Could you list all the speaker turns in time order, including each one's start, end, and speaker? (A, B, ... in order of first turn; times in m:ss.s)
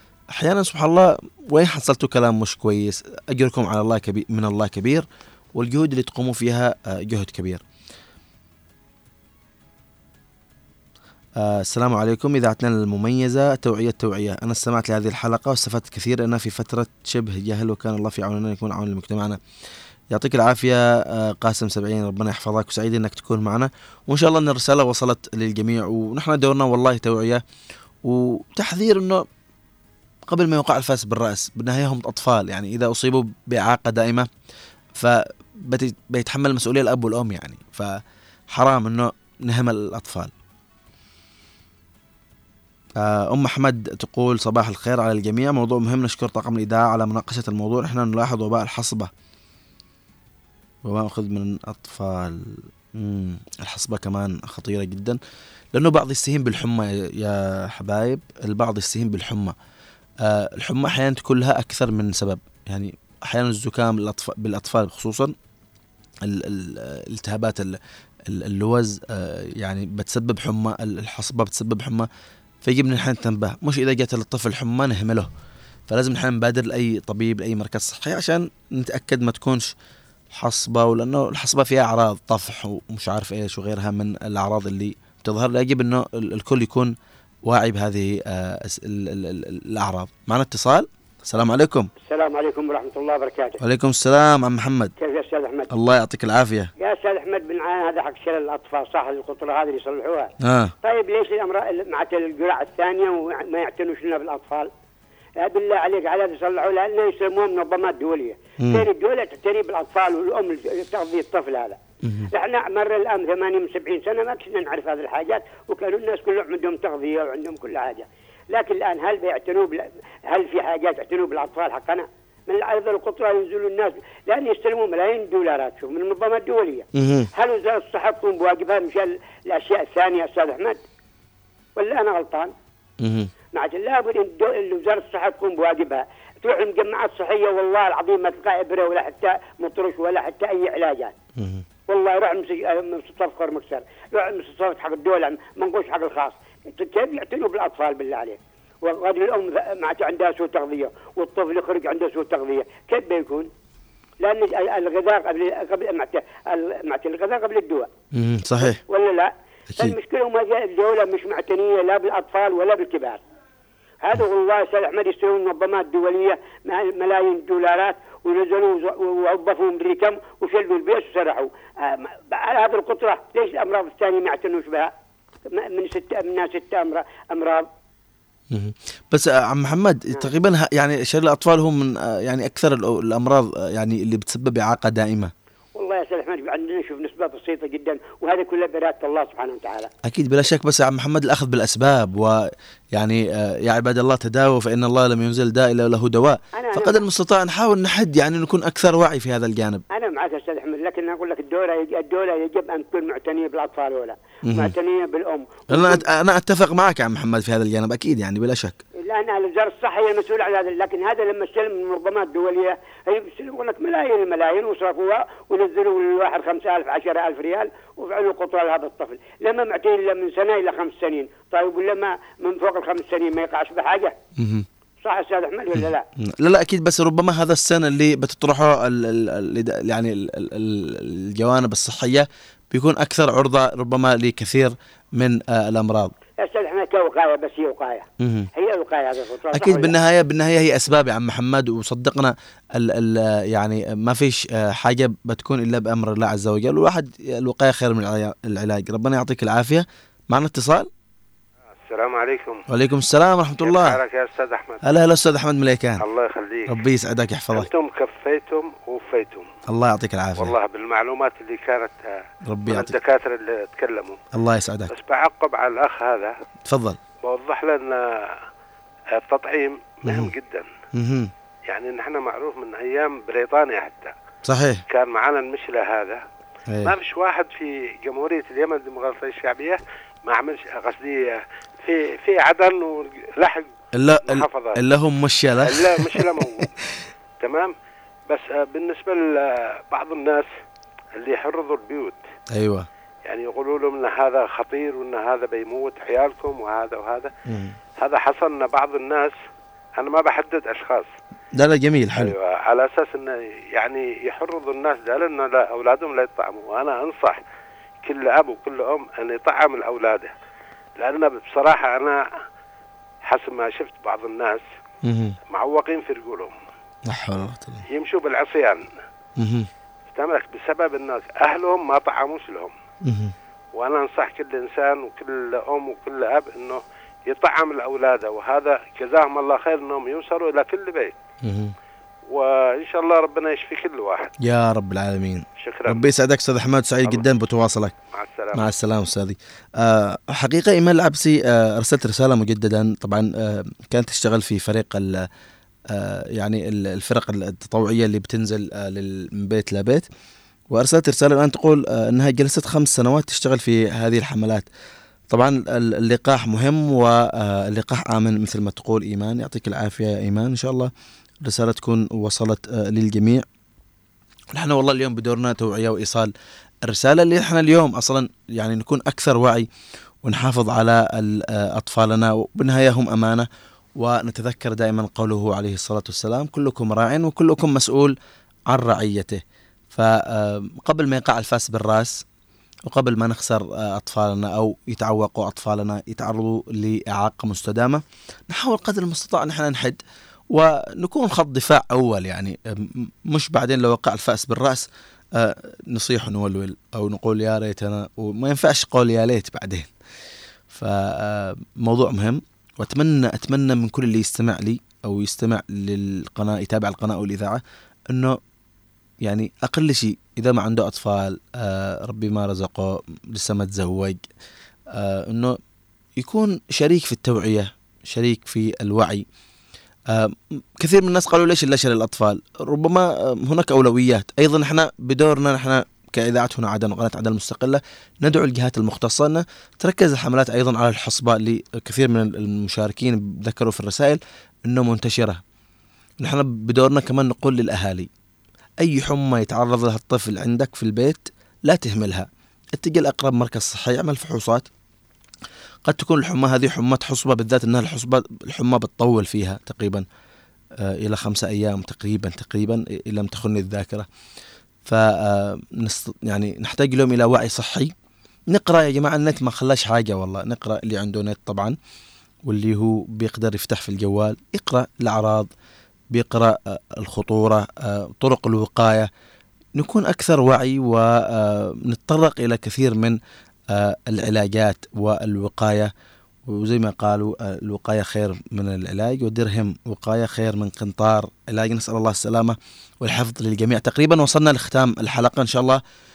0:00.3-0:05.0 A
0:05.6-0:07.6 A
0:11.4-0:19.4 A
0:20.1-0:27.4 A
0:28.0-0:29.2 A
0:30.3-0:34.3 A
0:35.0-0:38.0 A
0:38.5-0:40.3 A
0:43.0-0:49.1 A
0:50.8-0:55.2 A
0:55.7-0:59.5 A
1:00.2-1:05.3 A
1:06.2-1:07.7 A
1:08.3-1:12.1 A
1:12.6-1:15.3 A
1:15.9-1:19.7 A
1:20.3-1:26.9 A
1:27.4-1:31.9 A
1:32.0-1:33.6 B
1:33.6-1:34.9 A
1:35.0-1:35.7 B
1:35.7-1:36.7 A
1:36.8-1:44.7 B
1:40.4-1:40.7 A
1:45.4-1:51.8 B
1:48.6-1:48.8 A
1:52.0-1:52.3 A
1:52.3-2:10.8 B
2:06.9-2:07.3 A
2:11.8-2:12.5 B
2:13.0-2:13.3 A
2:13.5-2:21.1 B
2:21.4-2:21.6 A
2:21.9-2:33.5 B
2:34.2-2:37.9 B
2:38.1-2:38.8 A
2:38.6-2:43.2 B
2:44.0-2:54.9 B
2:55.5-2:57.7 B
2:58.5-3:05.3 A
3:05.8-3:09.9 B
3:10.0-3:12.4 A
3:12.9-3:19.8 A
3:16.5-3:17.0 B
3:19.9-3:26.0 B
3:24.5-3:24.7 A
3:25.7-3:28.8 A
3:29.0-3:44.1 B
3:44.4-3:44.6 A
3:45.0-3:46.0 B
3:45.8-3:56.1 A
3:56.4-3:58.0 B
3:58.2-3:58.5 A
3:58.6-3:59.9 B
3:59.5-4:10.9 A
4:11.8-4:12.6 C
4:12.7-4:14.0 A
4:13.6-4:15.0 C
4:14.8-4:16.0 A
4:16.0-4:16.8 C
4:16.7-4:17.7 A
4:17.5-4:19.5 C
4:19.7-4:20.5 A
4:20.4-4:24.2 C
4:22.4-4:23.0 A
4:24.3-4:24.9 A
4:24.9-4:26.3 C
4:26.7-4:27.0 A
4:27.2-4:28.3 C
4:29.1-4:30.7 C
4:31.0-4:31.3 A
4:31.7-4:34.1 C
4:34.4-4:34.8 A
4:34.9-4:36.2 C
4:36.8-4:43.7 C
4:44.0-4:46.2 A
4:44.2-4:44.8 C
4:45.6-4:46.7 C
4:47.4-4:47.7 C
4:48.3-4:50.5 C
4:51.1-4:52.2 C
4:52.5-4:52.9 A
4:53.3-4:57.3 C
4:57.5-4:57.7 A
4:58.0-4:59.3 C
5:00.0-5:01.1 C
5:01.6-5:02.3 A
5:02.2-5:07.4 C
5:08.0-5:10.3 C
5:11.0-5:12.2 C
5:13.2-5:14.6 C
5:15.0-5:15.3 A
5:15.5-5:16.5 C
5:17.1-5:17.8 A
5:17.9-5:18.9 C
5:19.4-5:19.7 A
5:20.1-5:22.7 C
5:23.0-5:23.3 A
5:23.7-5:31.2 C
5:31.4-5:31.7 A
5:32.3-5:34.3 C
5:34.4-5:37.9 A
5:35.6-5:36.0 C
5:38.1-5:38.7 C
5:38.5-5:45.2 A
5:45.9-5:50.0 A
5:50.7-5:54.6 A
5:55.3-6:00.9 A
6:01.4-6:03.4 A
6:04.5-6:06.3 A
6:06.9-6:09.6 A
6:10.2-6:13.4 A
6:14.0-6:18.1 A
6:18.7-6:19.4 A
6:19.9-6:22.2 A
6:22.9-6:30.0 A
6:30.5-6:34.8 A
6:35.4-6:39.9 A
6:40.7-6:47.6 A
6:48.1-6:48.4 A
6:49.2-6:54.2 A
6:55.0-6:55.6 A
6:56.2-6:59.2 A
7:00.1-7:15.4 A
7:16.2-7:18.1 A
7:18.8-7:22.3 A
7:22.8-7:24.7 A
7:25.8-7:30.0 A
7:30.8-7:34.0 A
7:34.8-7:37.9 A
7:38.5-7:41.7 A
7:42.5-7:45.5 A
7:46.1-7:49.1 A
7:49.8-7:53.2 A
7:53.7-7:55.9 A
7:56.5-8:05.8 A